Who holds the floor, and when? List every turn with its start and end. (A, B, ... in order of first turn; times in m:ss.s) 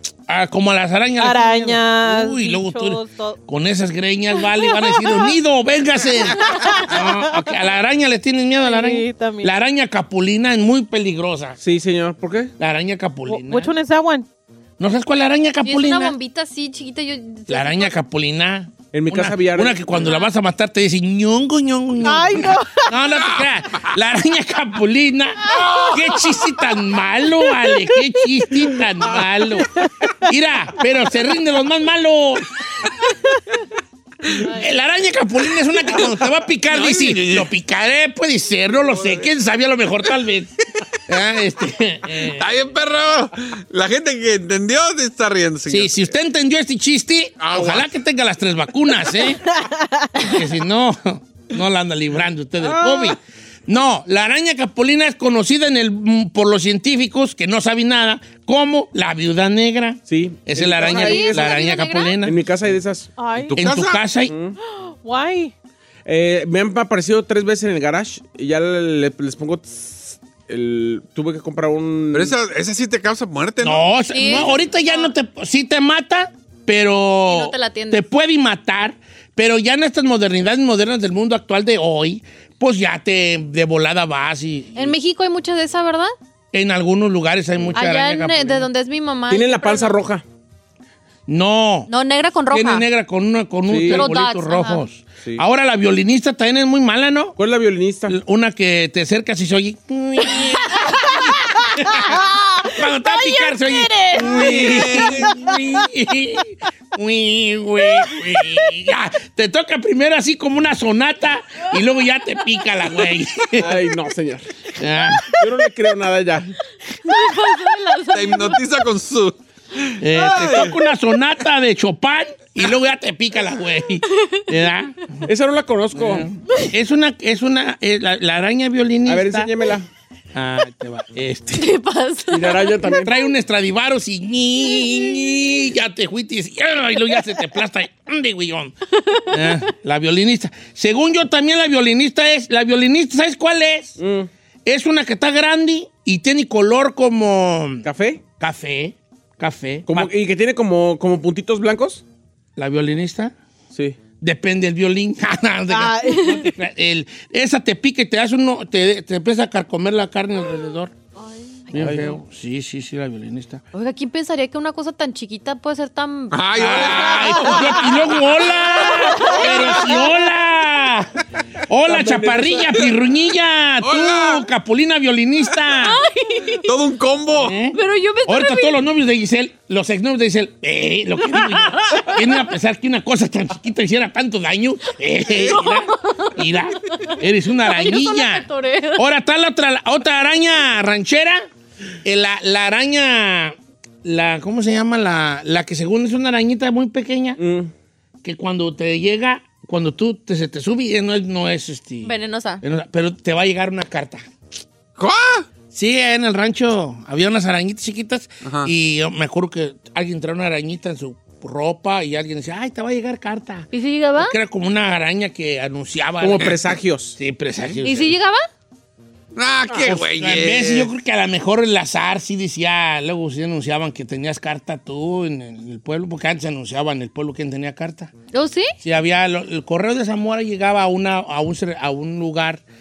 0:00.3-0:11.6 A
0:01.2-0:03.4 B
0:04.8-0:05.1 B
0:06.3-0:07.6 B
0:08.6-0:09.6 B
0:11.6-0:12.5 C
0:12.6-0:13.7 A
0:13.3-0:14.3 B
0:14.8-0:16.2 A
0:15.6-0:17.9 D
0:17.5-0:32.6 A
0:18.9-0:20.0 C
0:20.0-0:20.3 D
0:22.0-0:23.0 B
0:23.2-0:23.4 E
0:34.3-0:40.5 A
0:36.7-0:37.5 E
0:38.8-0:39.3 E
0:41.1-0:42.5 A
0:42.1-0:46.1 E
0:45.7-0:49.5 A
0:47.4-0:47.9 E
0:50.2-1:02.4 A
0:52.6-0:53.2 C
1:00.1-1:01.6 C
1:00.8-1:02.2 D
1:02.2-1:03.1 C
1:03.2-1:03.7 B
1:03.4-1:04.0 E
1:03.6-1:04.3 A
1:04.3-1:04.6 C
1:04.6-1:05.5 B
1:06.1-1:12.4 C
1:12.1-1:14.4 E
1:13.6-1:25.0 A
1:14.1-1:15.0 D
1:17.3-1:18.0 D
1:24.8-1:26.1 D
1:26.5-1:28.7 A
1:27.8-1:30.0 D
1:29.3-1:30.2 C
1:31.3-1:31.9 A
1:31.9-1:32.9 D
1:32.5-1:37.4 A
1:33.7-1:34.1 C
1:33.9-1:34.8 D
1:37.4-1:38.2 C
1:38.1-1:53.9 A
1:41.8-1:45.4 B
1:44.2-1:45.3 E
1:53.6-1:54.5 C
1:54.8-1:55.4 A
1:55.2-1:56.5 C
1:57.0-1:58.6 D
1:58.1-2:00.8 E
2:00.0-2:05.2 A
2:00.2-2:00.7 C
2:04.1-2:04.5 D
2:05.2-2:06.3 C
2:05.9-2:09.7 A
2:09.1-2:09.9 C
2:10.3-2:11.8 A
2:11.5-2:12.9 D
2:12.3-2:13.1 C
2:12.9-2:18.7 A
2:19.0-2:19.6 D
2:19.3-2:24.0 A
2:24.0-2:24.3 C
2:24.6-2:27.9 A
2:27.8-2:28.2 C
2:28.4-2:30.1 A
2:29.9-2:32.0 C
2:32.6-2:33.4 A
2:33.7-2:34.0 C
2:34.2-2:40.9 A
2:35.7-2:36.4 B
2:36.1-2:36.5 D
2:41.7-2:41.9 D
2:41.7-2:43.6 A
2:41.8-2:42.2 C
2:43.7-2:48.0 D
2:46.3-2:48.7 E
2:46.5-2:51.1 A
2:48.6-2:50.1 D
2:51.7-2:56.0 A
2:51.9-2:52.9 C
2:53.8-2:54.4 E
2:55.8-2:56.7 D
2:56.6-2:57.6 E
2:57.3-3:11.5 A
2:57.7-2:58.8 D
3:05.3-3:05.6 E
3:05.4-3:09.1 D
3:12.0-3:17.4 A
3:17.4-3:17.7 C
3:18.2-3:24.2 A
3:22.0-3:22.6 D
3:25.0-3:25.5 E
3:25.7-3:38.2 A
3:28.4-3:28.7 E
3:33.7-3:34.4 D
3:36.2-3:37.2 C
3:37.8-3:38.5 D
3:39.3-3:40.9 E
3:39.7-3:39.9 C
3:39.8-3:48.1 A
3:48.3-3:48.7 D
3:48.8-3:52.6 A